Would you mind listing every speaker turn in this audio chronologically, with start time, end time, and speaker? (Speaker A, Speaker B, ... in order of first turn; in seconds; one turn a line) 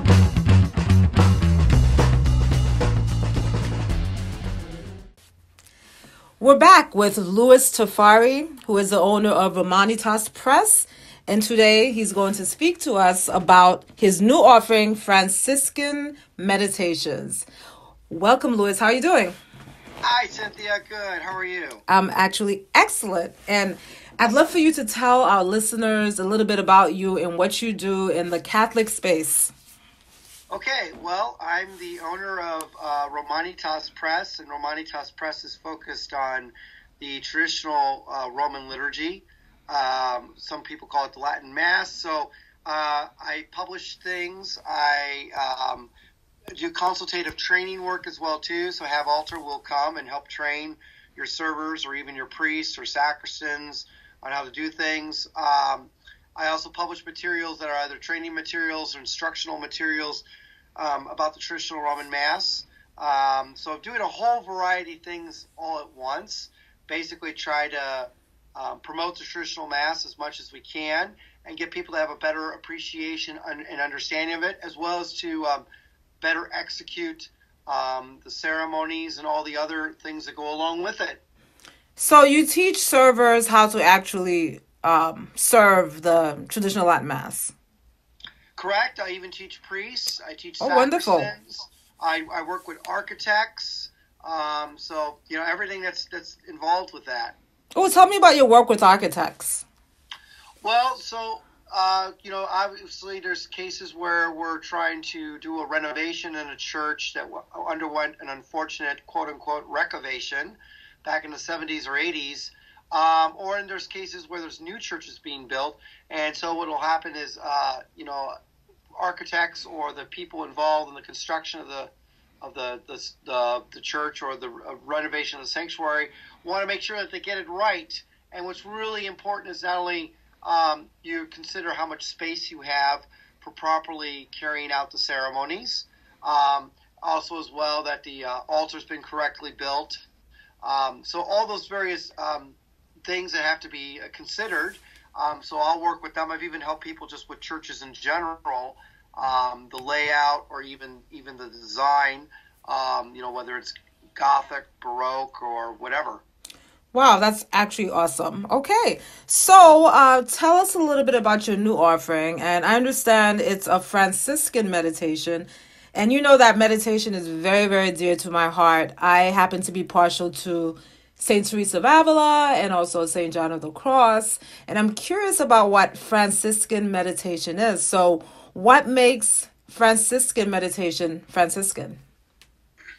Speaker A: 6.4-17.4
Speaker A: 18.1-19.4
Speaker B: 20.0-21.8
Speaker A: 21.9-29.5
Speaker B: 30.5-45.9
Speaker B: 46.5-60.2
Speaker B: 60.8-75.7
Speaker B: 76.2-81.2
Speaker A: 82.0-87.5
Speaker B: 88.5-97.4
Speaker A: 90.6-91.3
Speaker A: 97.7-99.6
Speaker B: 100.6-118.3
Speaker B: 119.0-140.0
Speaker B: 140.6-156.2
Speaker A: 156.9-182.0